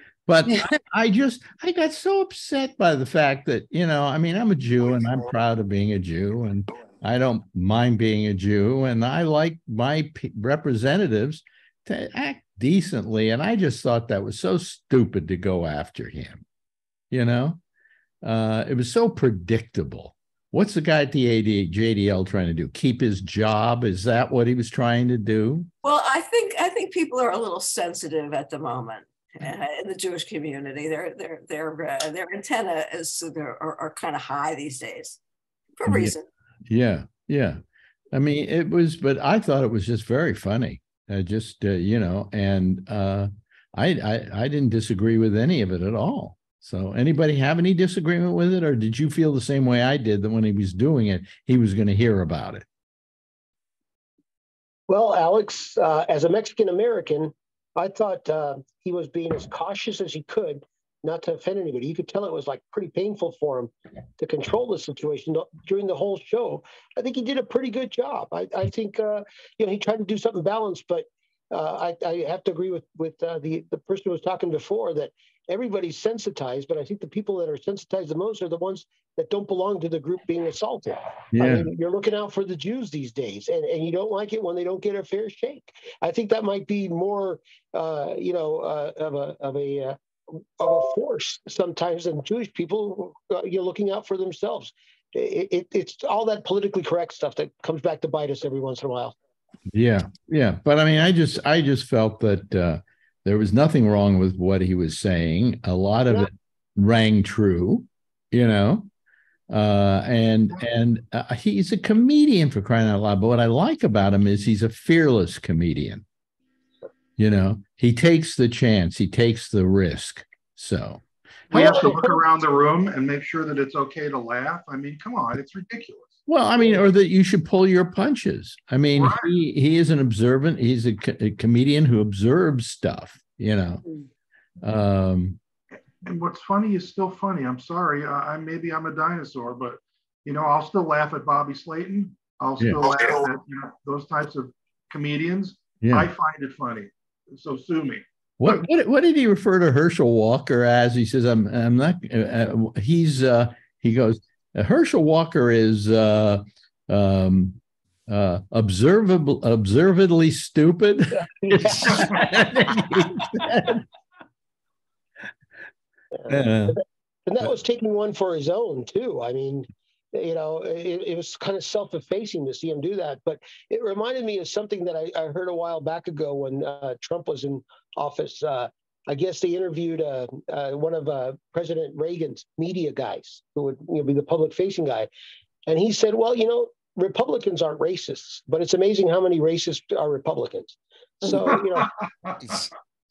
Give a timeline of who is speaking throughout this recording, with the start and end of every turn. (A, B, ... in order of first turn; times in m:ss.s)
0:00.3-0:16.4 A
0:17.1-0:17.6 A
0:18.2-0:25.7 A
0:25.8-0:35.2 B
0:35.8-0:36.3 B
0:35.9-0:36.2 A
0:36.7-0:37.6 A
0:38.1-0:52.6 A
0:54.9-1:30.0 C
1:21.3-1:21.7 A
1:30.6-1:39.2 C
1:39.7-1:48.9 A
1:49.5-1:56.0 A
1:57.2-2:02.1 A
2:01.5-2:06.2 D
2:06.3-2:13.8 A
2:09.0-2:09.2 D
2:14.6-2:15.4 A
2:16.0-2:28.6 D
2:22.6-2:22.8 A
2:25.8-2:26.1 A
2:28.4-2:43.8 A
2:41.2-2:42.4 C
2:41.9-2:42.2 D
2:46.2-3:05.1 C
2:46.3-2:46.8 A
3:05.7-3:11.9 C
3:11.7-3:12.7 D